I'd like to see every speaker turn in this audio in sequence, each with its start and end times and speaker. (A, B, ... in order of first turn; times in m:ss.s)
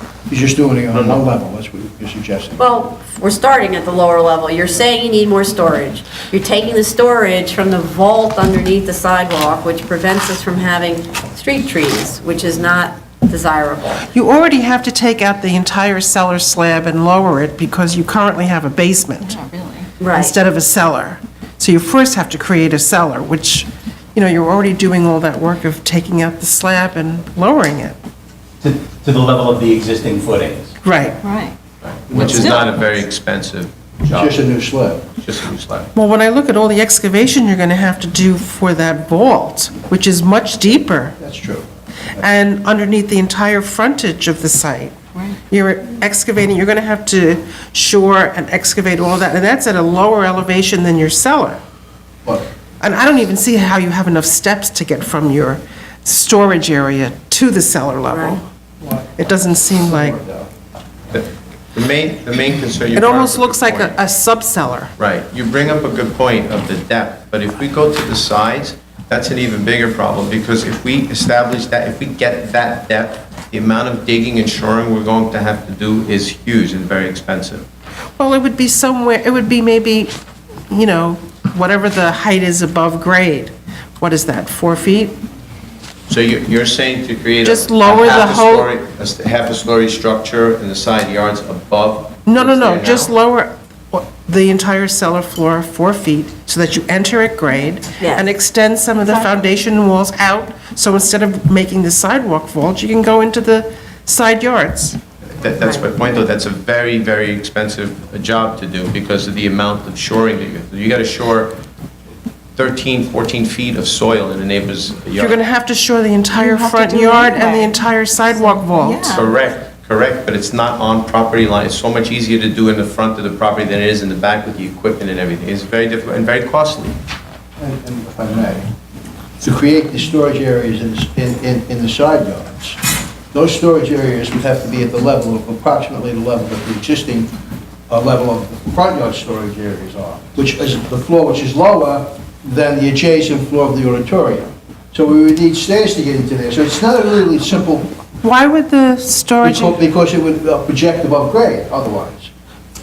0:00.3-0:02.7 A
0:00.9-0:01.3 B
0:02.6-0:14.1 C
0:14.1-0:19.4 D
0:19.4-0:19.8 E
0:20.0-0:20.3 C
0:20.1-0:28.0 D
0:28.6-0:30.7 F
0:30.8-0:31.2 D
0:31.2-0:31.5 E
0:31.8-0:34.5 B
0:32.1-0:32.7 A
0:34.0-0:35.0 A
0:35.2-0:35.9 B
0:35.9-0:41.2 D
0:41.2-0:42.3 A
0:42.1-0:44.9 D
0:45.5-0:51.6 D
0:52.8-0:58.4 D
0:58.1-0:58.4 C
0:58.8-0:59.2 A
0:59.2-1:00.2 D
0:59.8-1:00.5 A
1:01.1-1:04.0 B
1:02.9-1:04.9 D
1:05.0-1:17.7 B
1:18.2-1:20.1 D
1:20.7-1:25.1 D
1:26.1-1:33.1 B
1:27.4-1:28.7 D
1:32.3-1:45.0 D
1:38.0-1:38.3 C
1:45.4-1:51.6 B
1:45.4-1:46.0 C
1:52.6-1:55.4 B
1:55.2-1:59.2 D
1:56.4-1:57.7 E
1:58.4-1:59.1 E
1:59.1-2:07.0 B
2:07.6-2:08.7 A
2:09.4-2:12.8 A
2:13.3-2:17.3 A
2:17.9-2:27.9 A
2:28.1-2:29.8 D
2:29.4-2:32.3 A